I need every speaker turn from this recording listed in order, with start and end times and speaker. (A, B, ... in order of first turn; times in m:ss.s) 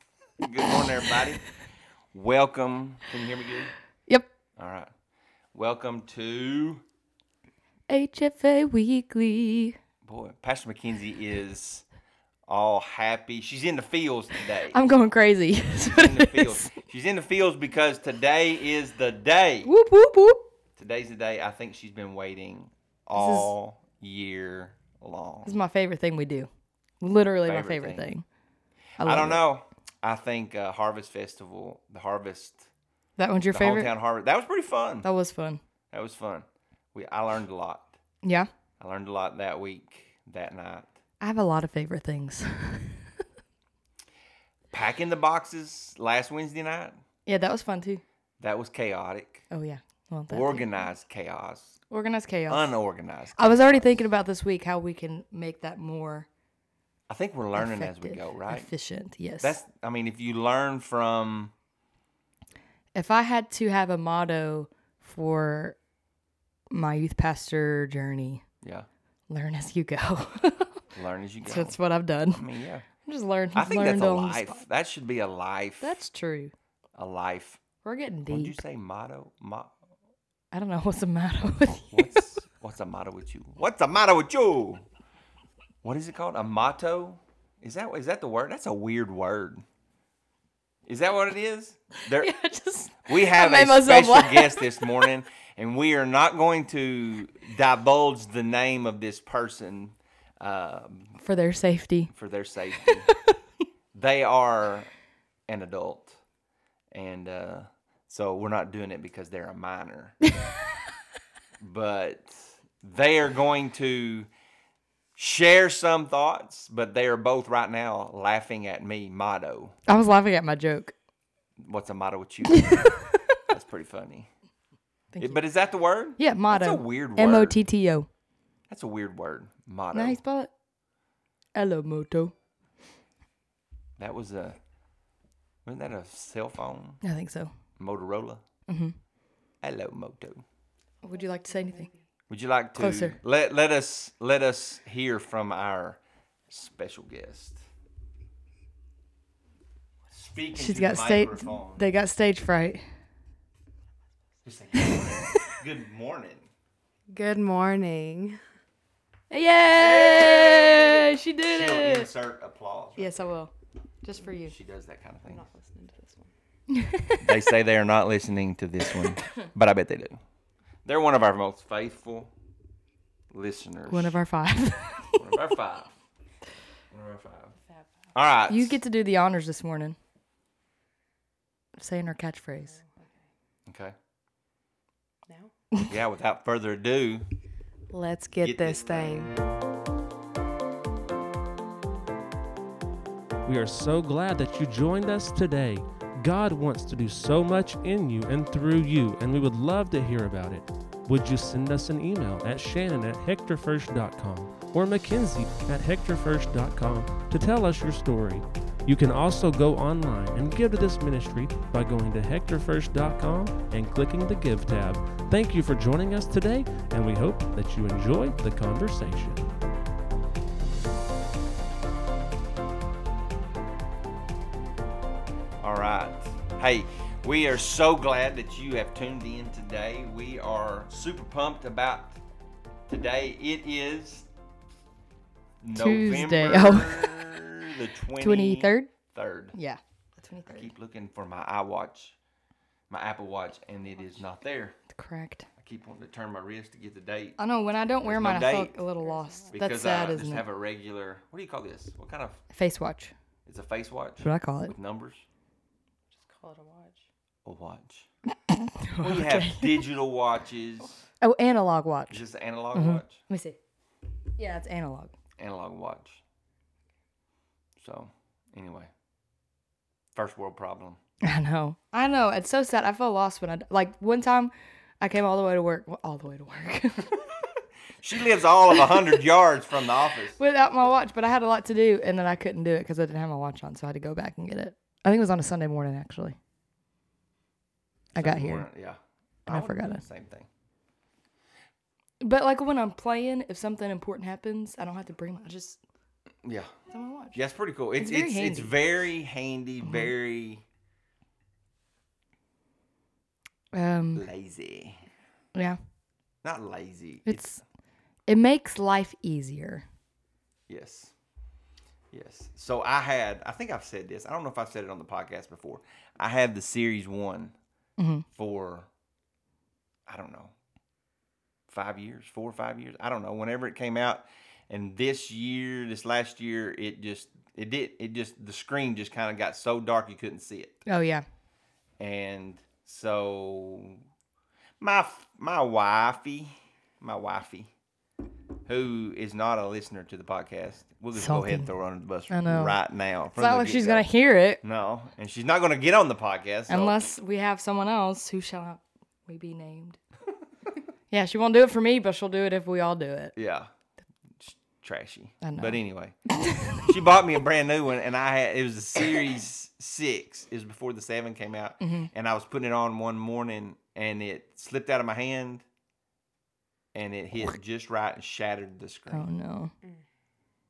0:00.4-0:01.4 A
0:02.1-0:03.7 A
0:04.6-0:04.9 A
0:05.5-0:06.8 A
0:07.9-0:09.8 B
0:10.0-0:11.8 A
0:12.5-0:14.8 A
0:14.7-0:16.7 B
0:15.7-0:19.7 A
0:19.6-0:20.5 B
0:20.8-0:25.6 A
0:23.1-0:23.5 B
0:25.4-0:26.5 B
0:27.0-0:28.2 B
0:27.4-0:28.1 A
0:29.0-0:29.4 B
0:29.0-0:32.7 A
0:33.2-0:33.9 B
0:33.5-0:35.1 A
0:35.0-0:35.6 B
0:35.9-0:38.0 A
0:38.2-0:38.5 B
0:38.8-0:40.9 A
0:41.2-0:43.0 B
0:44.7-0:47.0 A
0:47.3-0:48.0 B
0:48.4-0:49.5 A
0:49.5-0:50.7 B
0:50.3-0:51.8 A
0:51.9-0:52.7 B
0:52.5-0:54.0 A
0:53.4-0:56.3 B
0:57.1-0:58.7 A
0:57.6-0:59.6 B
0:59.4-1:01.5 A
1:03.0-1:05.8 B
1:06.7-1:08.4 B
1:08.6-1:08.9 A
1:09.3-1:10.8 B
1:10.9-1:11.8 A
1:11.4-1:14.6 B
1:12.3-1:12.9 A
1:13.6-1:16.0 A
1:15.8-1:16.5 B
1:17.0-1:17.6 A
1:17.8-1:18.6 B
1:18.3-1:19.7 A
1:20.5-1:22.2 B
1:21.9-1:24.9 A
1:25.8-1:29.6 A
1:30.9-1:32.4 A
1:32.1-1:35.1 B
1:33.0-1:41.2 A
1:41.2-1:42.1 B
1:42.1-1:43.1 A
1:42.8-1:43.1 B
1:43.9-1:44.9 A
1:45.5-1:46.2 A
1:46.9-1:50.2 A
1:51.6-1:54.3 A
1:55.2-1:59.8 A
1:59.9-2:00.9 B
2:01.6-2:03.0 A
2:02.5-2:03.4 B
2:03.5-2:04.3 A
2:05.1-2:05.4 B
2:05.2-2:07.6 A
2:06.2-2:08.1 B
2:08.7-2:10.2 A
2:09.9-2:10.5 B
2:11.6-2:12.3 B
2:14.0-2:14.6 A
2:15.6-2:17.0 A
2:17.0-2:17.5 B
2:17.8-2:18.4 A
2:18.7-2:19.0 B
2:19.6-2:20.4 A
2:21.0-2:21.9 B
2:21.0-2:22.0 C
2:22.3-2:27.6 A
2:22.8-2:23.2 B
2:30.1-2:31.8 A
2:30.5-2:32.9 B
2:34.4-2:36.5 A
2:37.1-2:38.4 C
2:39.3-2:42.1 B
2:39.7-2:43.2 A
2:43.0-2:43.5 B
2:44.0-2:44.6 B
2:44.5-2:45.4 A
2:45.2-2:46.3 C
2:46.7-2:47.5 B
2:47.2-2:50.2 A
2:50.8-2:52.3 A
2:53.3-2:54.2 A
2:53.9-2:55.3 B
2:55.2-2:55.9 A
2:56.9-2:57.6 A
2:57.6-2:58.1 C
2:58.1-2:58.8 A
2:58.5-3:00.0 B
3:01.8-3:02.8 B
3:02.6-3:03.3 C
3:03.7-3:04.0 A
3:05.3-3:05.5 C
3:05.9-3:07.3 A
3:07.9-3:09.4 C
3:08.4-3:09.3 A
3:13.5-3:39.5 D
3:45.6-3:52.2 A
3:52.9-3:54.3 A
3:55.6-3:59.6 A
3:55.7-3:57.3 B
3:58.2-3:58.9 B
3:59.5-4:00.7 B
4:00.5-4:02.2 A
4:02.9-4:04.8 A
4:04.9-4:05.5 B
4:05.6-4:07.4 A
4:07.4-4:10.4 B
4:08.0-4:08.8 A
4:09.0-4:09.6 C
4:09.5-4:12.4 A
4:12.5-4:13.1 B
4:13.5-4:15.2 A
4:14.2-4:14.8 B
4:16.1-4:17.1 C
4:17.4-4:18.1 A
4:18.5-4:19.8 B
4:19.0-4:21.0 A
4:21.2-4:23.6 B
4:22.1-4:23.2 A
4:24.4-4:25.1 B
4:25.4-4:26.2 A
4:27.8-4:28.9 A
4:30.2-4:31.0 A
4:31.2-4:37.3 B
4:38.0-4:40.4 A
4:40.4-4:46.4 B
4:48.2-4:48.7 B
4:48.2-4:50.5 A
4:49.5-4:50.0 B
4:52.2-4:55.8 B
4:56.4-4:56.7 A
4:56.9-4:57.4 B
4:57.4-5:00.6 A
4:58.0-4:58.7 B
5:03.7-5:04.3 B
5:04.2-5:05.1 A
5:06.4-5:07.6 A
5:07.3-5:07.6 B
5:08.3-5:09.8 B
5:10.7-5:11.1 A
5:12.1-5:17.6 A
5:18.0-5:18.3 B
5:18.3-5:18.9 A
5:20.1-5:20.5 A
5:21.7-5:30.8 A
5:30.9-5:31.2 B
5:32.0-5:34.0 A
5:34.8-5:37.7 A
5:38.7-5:44.1 A
5:41.2-5:41.7 B
5:42.3-5:42.8 B
5:43.3-5:44.6 B
5:44.6-5:47.1 A
5:46.7-5:50.0 B
5:51.1-5:53.4 B
5:53.4-5:53.7 A
5:54.4-5:56.2 A
5:55.4-5:56.8 B
5:56.8-6:05.6 A
6:01.8-6:02.1 B
6:06.9-6:09.3 A
6:09.1-6:09.7 B